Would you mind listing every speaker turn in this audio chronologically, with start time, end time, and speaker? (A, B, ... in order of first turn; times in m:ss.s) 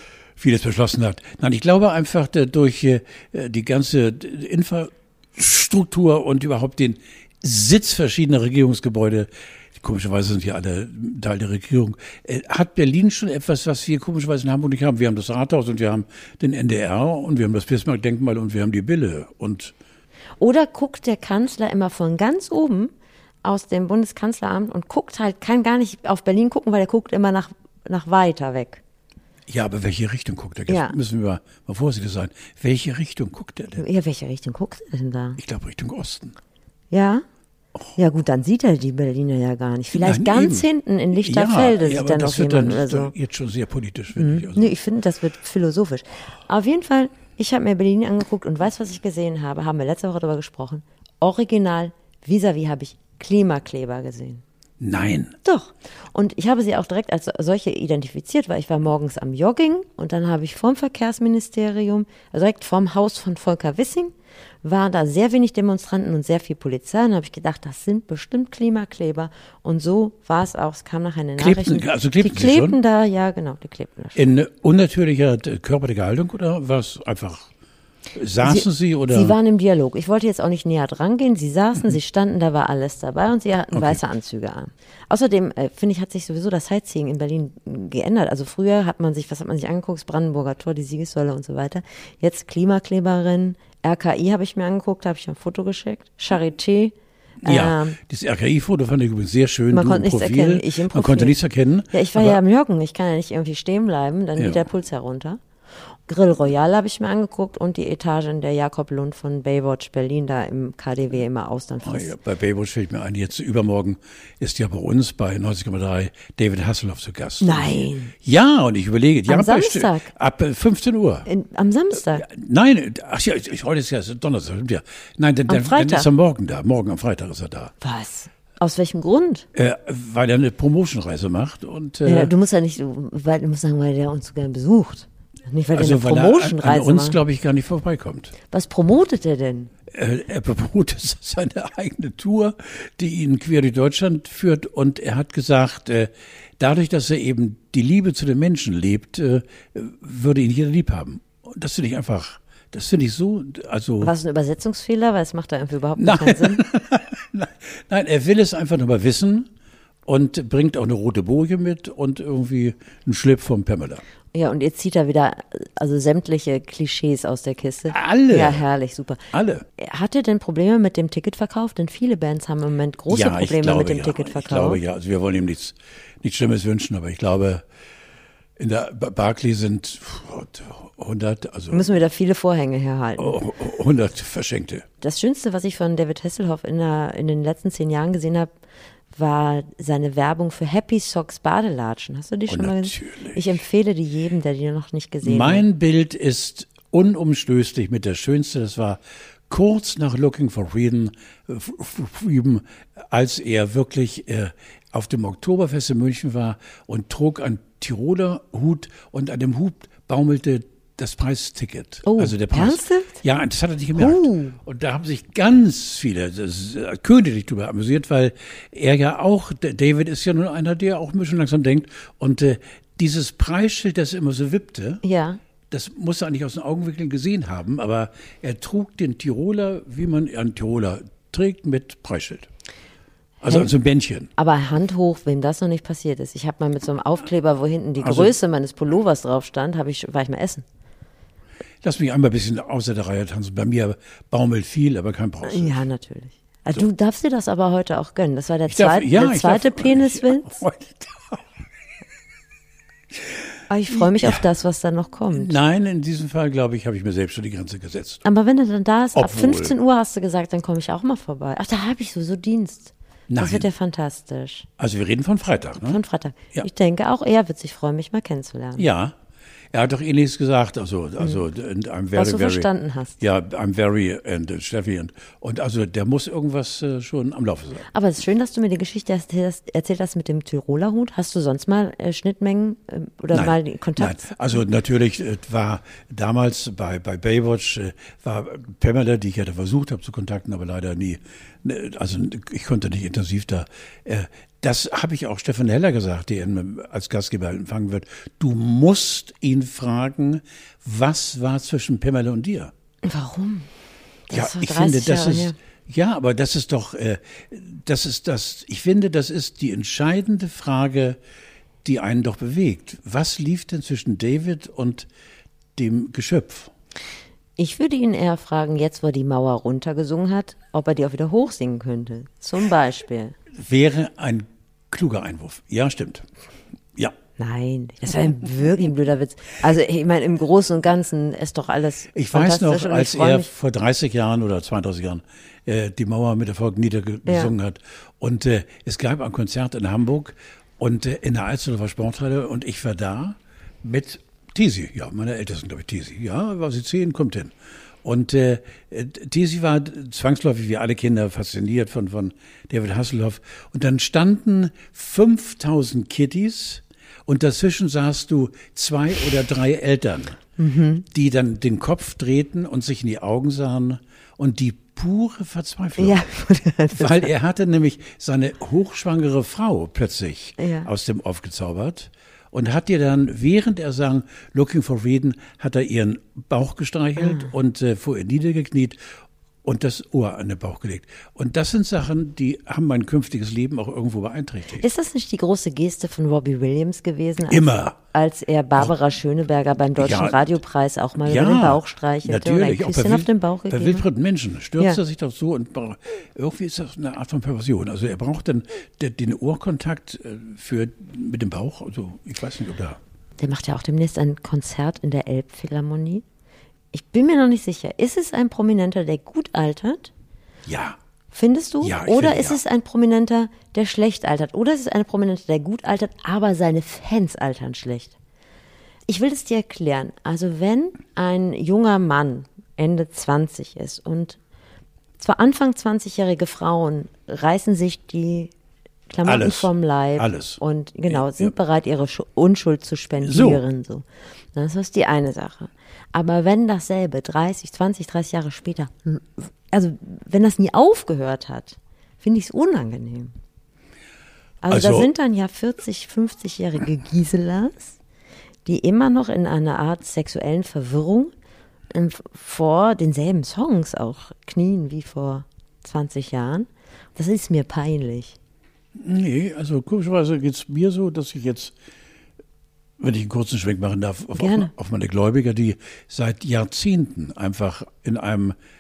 0:00.4-0:19.7 A
0:20.4-0:22.9 B
0:23.4-0:28.8 B
0:29.5-0:33.8 A
0:30.7-0:30.9 B
0:33.8-0:35.4 B
0:35.4-0:36.4 A
0:36.9-0:37.2 B
0:38.0-0:43.1 B
0:39.9-0:44.7 A
0:44.1-0:54.4 B
0:54.8-0:55.4 A
0:55.4-1:14.2 B
1:11.4-1:12.8 A
1:14.1-1:17.5 A
1:18.1-1:19.3 A
1:18.4-1:38.0 B
1:23.7-1:24.0 A
1:37.4-1:42.4 A
1:39.7-1:41.4 B
1:41.9-1:45.4 B
1:44.4-1:44.6 A
1:46.1-1:52.1 B
1:51.8-2:01.3 A
1:57.4-1:58.1 B
1:59.3-2:00.1 B
2:01.2-2:02.2 B
2:02.1-2:07.7 A
2:05.5-2:06.1 B
2:07.8-2:09.4 B
2:09.5-2:12.3 A
2:12.0-2:17.2 B
2:15.7-2:18.3 A
2:18.5-2:19.7 B
2:19.9-2:34.1 A
2:34.0-2:36.6 B
2:36.0-2:39.5 A
2:40.0-2:44.0 A
2:44.3-2:49.2 B
2:47.9-2:48.6 A
2:49.3-2:49.6 A
2:49.8-2:54.8 B
2:53.1-2:57.6 A
2:58.6-3:01.9 A
3:01.7-3:03.4 B
3:03.2-3:04.8 A
3:05.0-3:08.5 B
3:09.1-3:15.6 B
3:12.5-3:13.4 A
3:15.2-3:45.0 A
3:32.0-3:33.2 B
3:34.0-3:34.6 B
3:45.0-3:45.4 B
3:45.7-3:52.5 A
3:53.4-3:54.3 A
3:54.4-4:00.6 B
3:58.0-3:58.3 A
4:01.8-4:05.8 A
4:05.4-4:10.6 B
4:08.7-4:11.4 A
4:13.7-4:15.6 B
4:13.9-4:14.4 A
4:15.3-4:18.2 A
4:18.2-4:24.7 B
4:19.1-4:19.7 A
4:23.3-4:23.7 A
4:24.8-4:26.0 A
4:25.8-4:28.8 B
4:28.8-4:29.1 A
4:29.7-4:37.8 A
4:32.1-4:33.2 B
4:37.9-4:44.3 B
4:43.3-5:02.7 A
5:03.0-5:03.7 B
5:04.3-5:05.6 B
5:04.3-5:11.2 A
5:11.8-5:15.1 A
5:15.8-5:16.7 A
5:17.6-5:23.3 B
5:23.6-5:26.2 A
5:27.4-5:33.5 B
5:32.1-6:00.4 A
5:37.2-5:37.5 B
6:00.6-6:01.0 B
6:01.1-6:06.2 A
6:06.0-6:07.3 B
6:06.9-6:19.0 A
6:10.6-6:10.9 B
6:17.2-6:17.5 B
6:19.6-6:24.8 A
6:24.8-6:34.0 B
6:27.5-6:28.0 A
6:30.0-6:30.5 A
6:31.2-6:43.0 A
6:43.4-6:46.2 B
6:46.9-6:50.1 B
6:50.6-6:51.0 A
6:51.3-6:58.2 B
6:51.8-6:52.6 A
6:59.1-7:04.4 B
7:05.2-7:08.5 B
7:09.1-7:23.3 B
7:09.2-7:11.5 A
7:13.2-7:13.6 A
7:24.6-7:28.0 B
7:24.7-7:25.1 A
7:28.6-7:31.3 B
7:31.9-7:38.4 B
7:39.0-7:41.7 A
7:43.0-7:48.6 A
7:44.4-7:44.7 B